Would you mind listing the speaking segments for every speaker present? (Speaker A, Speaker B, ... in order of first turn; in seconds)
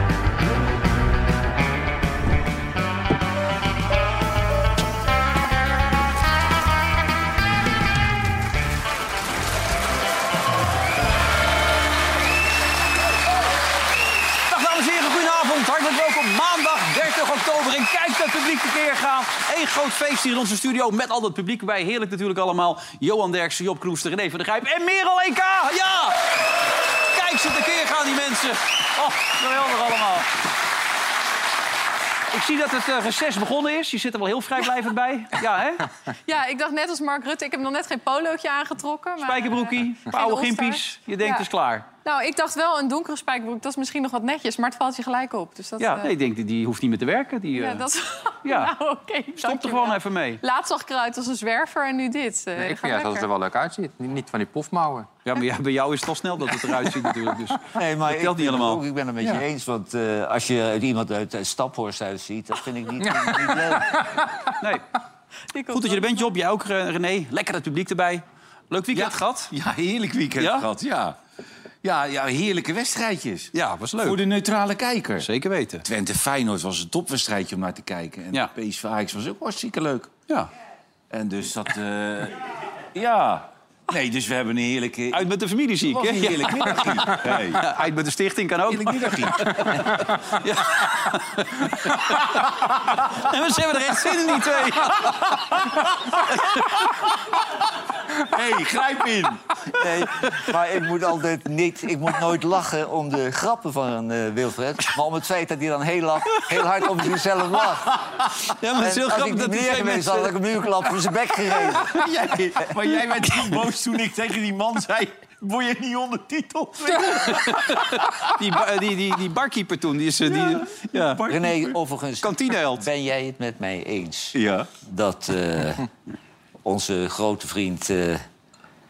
Speaker A: 14.5-26.5, 27.1-30.3, 32.3-35.9, 39.2-41.9, 45.8-47.9, 48.5-48.7, 49.4-50.4, 55.2-58.8, 65.7-69.5, 70.4-70.7, 73.5-74.2, 75.2-75.8, 85.1-96.8, 108.5-110.3, 117.2-121.2, 122.2-122.8
Speaker B: 36.3-41.5, 42.0-46.1, 47.5-53.3, 65.5-66.3
Speaker C: 52.6-55.1, 63.0-64.3
Speaker D: 57.7-64.0, 99.8-108.0, 108.8-112.0, 121.3-125.9, 126.7-128.2
Speaker E: 68.9-71.2, 71.8-75.3, 75.8-80.1, 81.1-85.2, 85.9-87.7, 88.7-90.1, 98.3-99.4, 111.8-118.3, 120.3-121.8, 124.3-124.7